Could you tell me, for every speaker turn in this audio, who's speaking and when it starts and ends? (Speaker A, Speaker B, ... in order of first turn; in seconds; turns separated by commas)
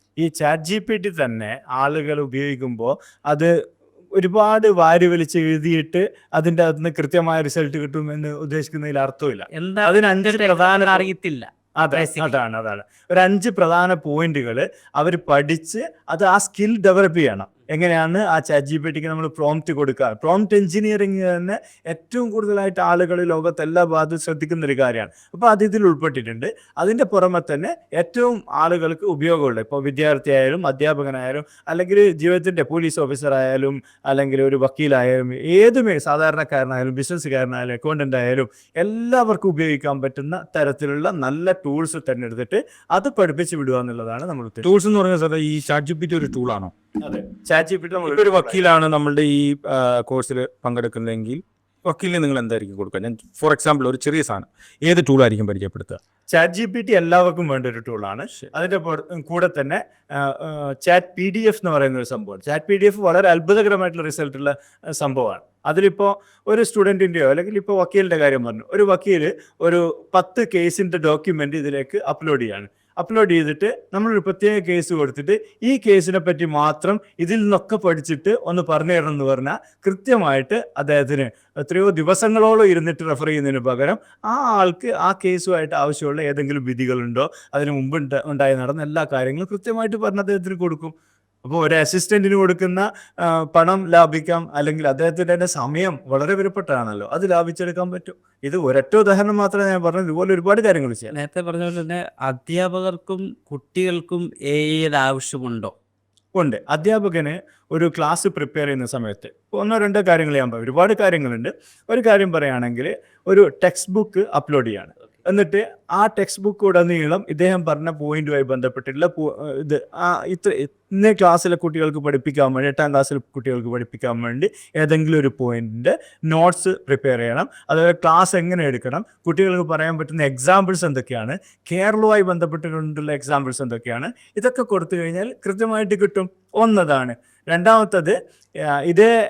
Speaker A: 0.2-3.5, Speaker A: 4.2-11.1, Speaker B: 9.5-12.3, Speaker A: 11.8-44.7, Speaker C: 44.6-46.7, Speaker A: 47.0-48.6, Speaker C: 48.1-56.0, Speaker A: 56.3-101.1, Speaker B: 101.1-105.7, Speaker A: 106.3-139.1